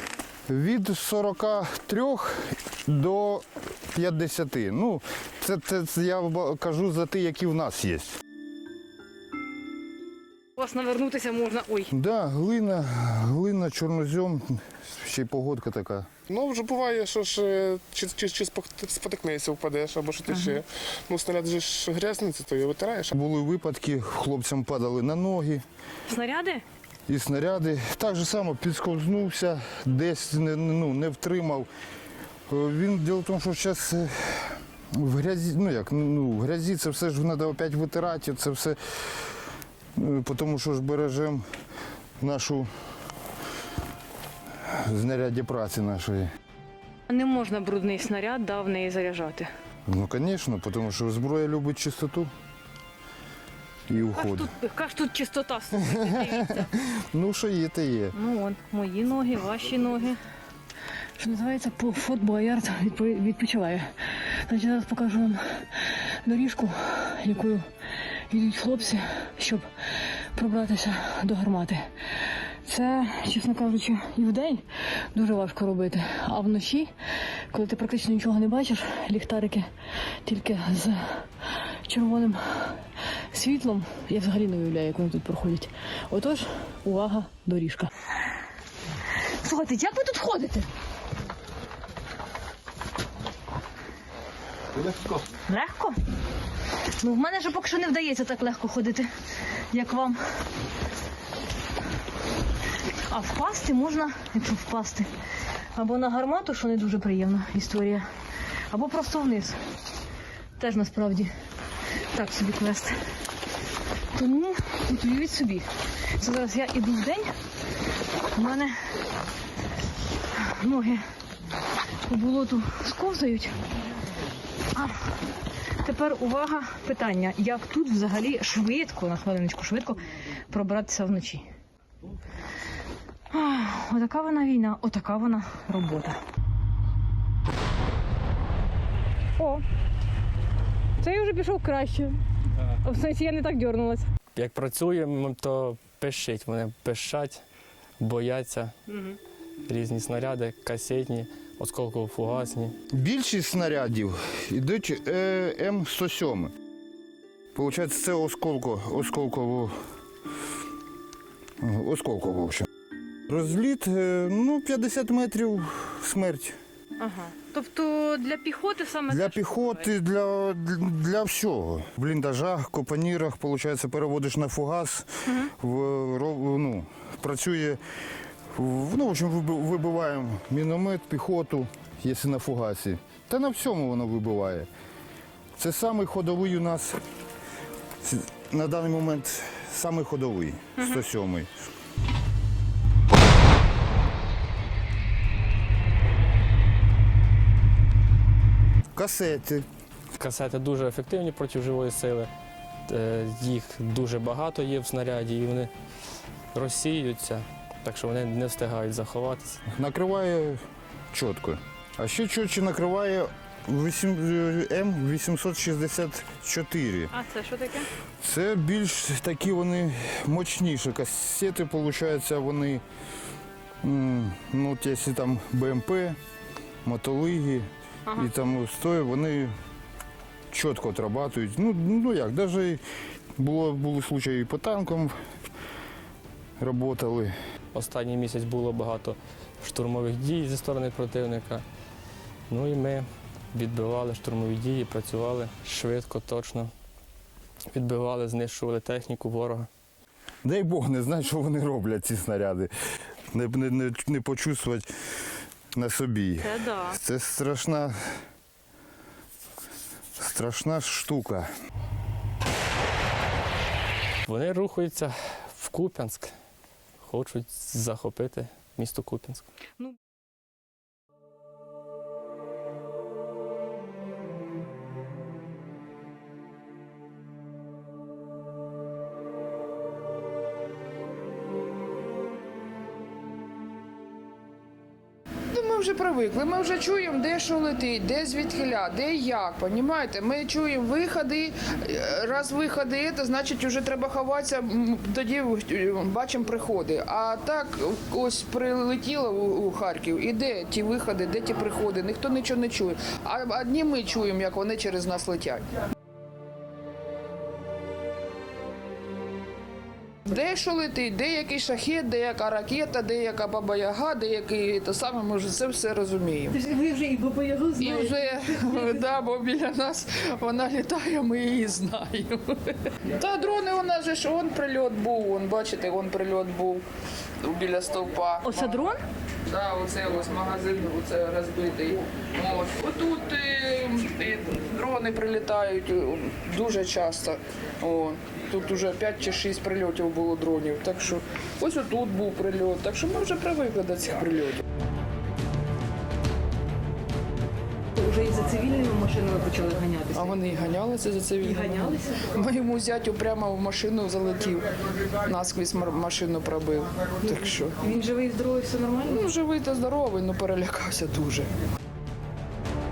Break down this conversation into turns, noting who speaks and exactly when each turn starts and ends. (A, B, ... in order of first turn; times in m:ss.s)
0:00.5-0:08.2 A
0:10.6-0:11.9 B
0:11.9-0:16.1 A
0:16.3-0:23.1 C
0:20.3-0:20.6 B
0:23.1-0:25.6 A
0:26.1-0:26.6 B
0:27.1-0:31.7 A
0:32.5-0:41.6 A
0:42.2-0:42.7 A
0:44.6-0:46.3 A
0:47.1-0:49.5 B
0:49.9-0:52.3 A
0:53.9-0:54.5 A
0:54.1-0:56.7 B
0:55.9-0:58.1 A
0:58.1-1:00.2 B
1:01.2-1:07.6 B
1:08.3-1:16.9 B
1:17.5-1:19.7 B
1:20.2-1:21.3 B
1:21.9-1:27.9 B
1:29.4-1:30.7 B
1:35.5-1:36.0 B
1:37.0-1:39.1 B
1:39.7-1:40.2 B
1:43.1-1:45.1 B
1:45.8-1:48.0 B
1:48.7-1:49.6 B
1:50.6-1:51.3 B
1:52.1-1:53.0 B
1:54.1-1:55.6 B
1:56.2-1:57.3 B
1:58.3-1:58.7 B
2:00.4-2:01.0 B
2:02.1-2:03.6 B
2:04.7-2:05.1 B
2:05.8-2:11.5 B
2:13.3-2:16.2 B
2:19.4-2:19.6 B
2:21.0-2:22.2 B
2:22.8-2:24.1 B
2:24.3-2:27.4 D
2:28.0-2:28.7 D
2:29.6-2:32.7 D
2:32.9-2:36.5 A
2:37.5-2:39.8 A
2:41.6-2:42.7 A
2:43.2-2:46.6 A
2:47.0-2:49.9 B
2:49.1-2:57.8 A
2:58.5-3:04.7 A
3:05.6-3:07.0 A
3:08.0-3:11.5 A
3:18.9-3:19.6 A
3:20.2-3:22.3 D
3:22.9-3:25.7 D
3:26.5-3:29.6 D
3:29.7-3:37.1 A
3:37.1-3:37.9 B
3:38.2-3:42.8 A
3:43.8-3:46.2 A
3:46.8-3:49.5 A
3:50.5-3:52.8 A
3:53.4-3:55.3 A
3:56.6-3:57.3 A
3:57.7-4:01.6 D
4:02.5-4:06.7 D
4:07.7-4:09.7 D
4:10.4-4:12.7 A
4:13.3-4:14.9 A
4:15.7-4:18.2 A
4:16.4-4:17.0 B
4:20.1-4:21.5 A
4:24.2-4:26.3 D
4:27.0-4:29.4 D
4:45.5-5:05.6 E
5:10.3-5:16.6 E
5:16.5-5:19.0 B
5:17.8-5:26.8 E
5:27.4-5:28.6 E
5:28.4-5:29.0 B
5:29.4-5:44.6 E
5:48.0-5:50.4 B
5:50.1-5:57.8 E
5:51.4-5:52.3 B
5:57.8-5:59.3 B
5:59.0-6:01.5 E